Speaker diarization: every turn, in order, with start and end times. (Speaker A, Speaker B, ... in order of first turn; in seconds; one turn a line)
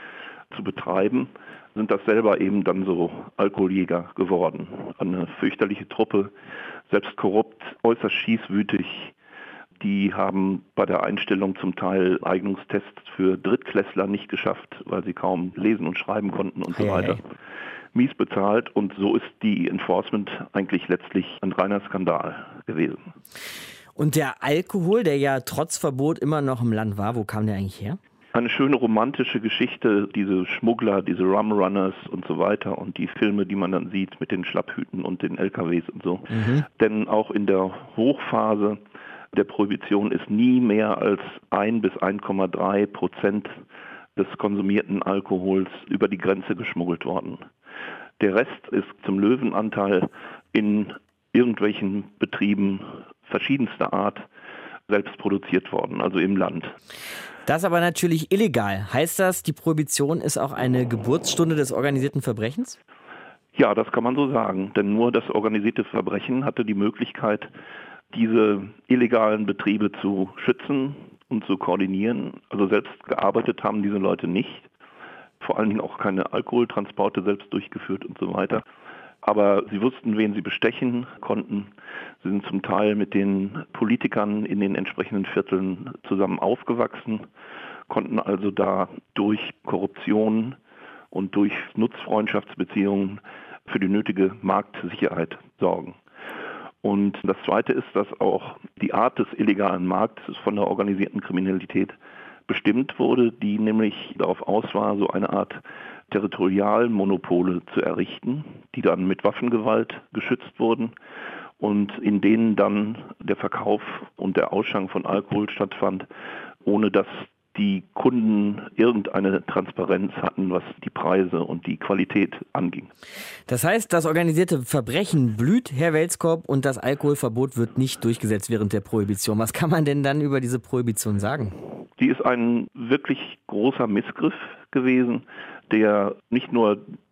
Speaker A: 0.5-6.3
Speaker A: 6.9-9.1
Speaker A: 9.8-17.2
Speaker B: 16.7-17.2
Speaker A: 17.9-23.1
Speaker B: 24.0-28.0
Speaker A: 28.3-38.8
Speaker B: 36.3-36.6
Speaker A: 39.3-43.6
Speaker A: 44.1-47.4
Speaker A: 48.2-54.2
Speaker A: 54.9-56.7
Speaker B: 57.5-62.8
Speaker A: 63.5-67.5
Speaker A: 68.1-74.7
Speaker A: 75.4-78.6
Speaker A: 79.2-81.7
Speaker A: 82.2-87.3
Speaker A: 87.9-90.6
Speaker A: 91.1-96.0
Speaker A: 96.8-102.0
Speaker A: 102.5-110.9
Speaker A: 111.6-116.1
Speaker A: 116.6-122.9
Speaker B: 123.5-131.6
Speaker A: 132.0-136.8